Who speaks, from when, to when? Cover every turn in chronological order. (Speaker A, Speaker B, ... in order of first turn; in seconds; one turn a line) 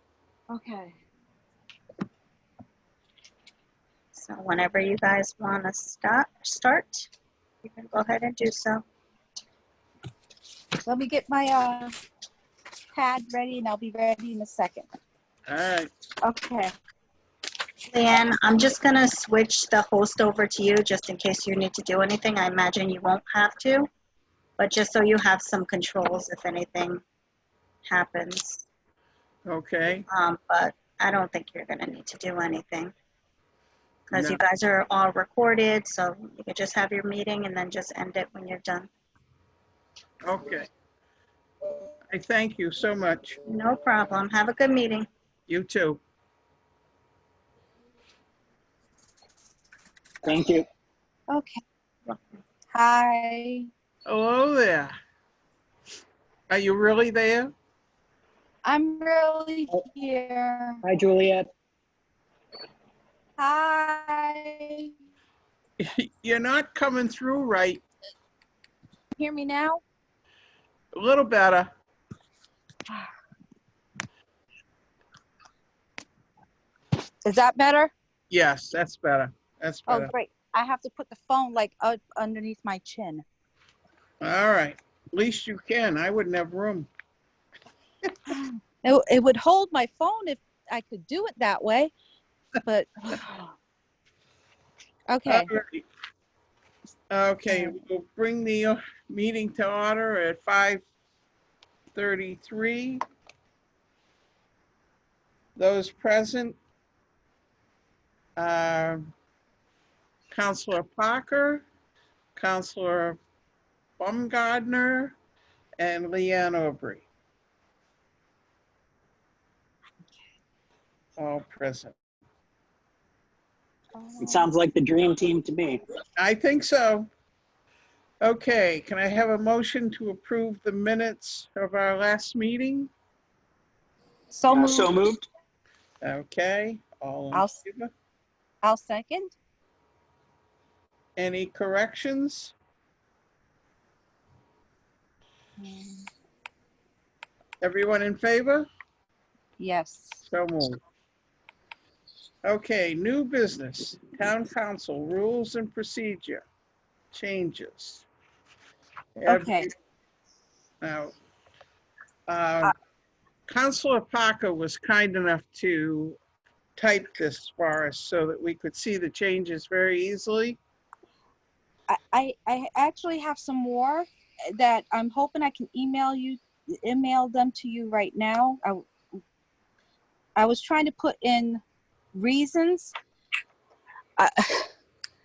Speaker A: 0.5-0.9
Speaker B: 4.1-7.1
Speaker B: 7.7-8.8
Speaker A: 10.8-11.9
Speaker A: 12.9-14.9
Speaker C: 15.5-15.9
Speaker A: 16.2-16.7
Speaker B: 17.9-23.9
Speaker B: 24.6-27.0
Speaker B: 27.9-28.6
Speaker C: 29.5-30.1
Speaker B: 30.1-32.9
Speaker B: 34.1-38.9
Speaker C: 34.1-34.4
Speaker C: 40.2-40.7
Speaker C: 42.1-43.4
Speaker B: 43.5-45.1
Speaker C: 45.5-46.0
Speaker D: 50.2-50.7
Speaker A: 51.3-51.6
Speaker A: 52.7-53.7
Speaker C: 54.1-54.9
Speaker C: 56.5-57.5
Speaker A: 58.6-60.8
Speaker D: 60.8-61.5
Speaker A: 63.4-64.9
Speaker C: 65.8-67.8
Speaker A: 69.2-69.8
Speaker C: 71.0-71.7
Speaker A: 77.2-77.9
Speaker C: 78.3-80.1
Speaker A: 79.9-83.2
Speaker C: 84.2-86.9
Speaker A: 88.3-91.9
Speaker A: 92.6-93.3
Speaker A: 95.1-95.5
Speaker C: 95.3-95.8
Speaker C: 97.1-100.8
Speaker A: 97.5-97.8
Speaker C: 102.0-103.0
Speaker C: 105.6-106.6
Speaker C: 108.4-109.1
Speaker C: 110.3-111.7
Speaker C: 112.4-113.2
Speaker C: 114.0-115.2
Speaker C: 115.8-117.1
Speaker C: 121.2-122.0
Speaker A: 124.0-124.5
Speaker D: 124.2-125.8
Speaker C: 126.2-127.1
Speaker C: 128.2-132.9
Speaker A: 134.3-135.0
Speaker D: 134.5-135.3
Speaker C: 136.0-137.9
Speaker A: 137.3-137.6
Speaker A: 138.6-139.3
Speaker C: 141.2-142.6
Speaker A: 145.6-146.1
Speaker C: 147.6-148.7
Speaker A: 149.6-150.2
Speaker C: 150.3-150.8
Speaker C: 152.4-156.4
Speaker C: 157.1-158.1
Speaker C: 159.2-159.7
Speaker A: 159.3-159.7
Speaker C: 160.8-161.2
Speaker C: 162.3-162.7
Speaker C: 163.5-166.2
Speaker C: 166.8-170.6
Speaker A: 171.9-178.9
Speaker A: 180.4-181.6
Speaker A: 182.1-182.9
Speaker A: 184.2-184.7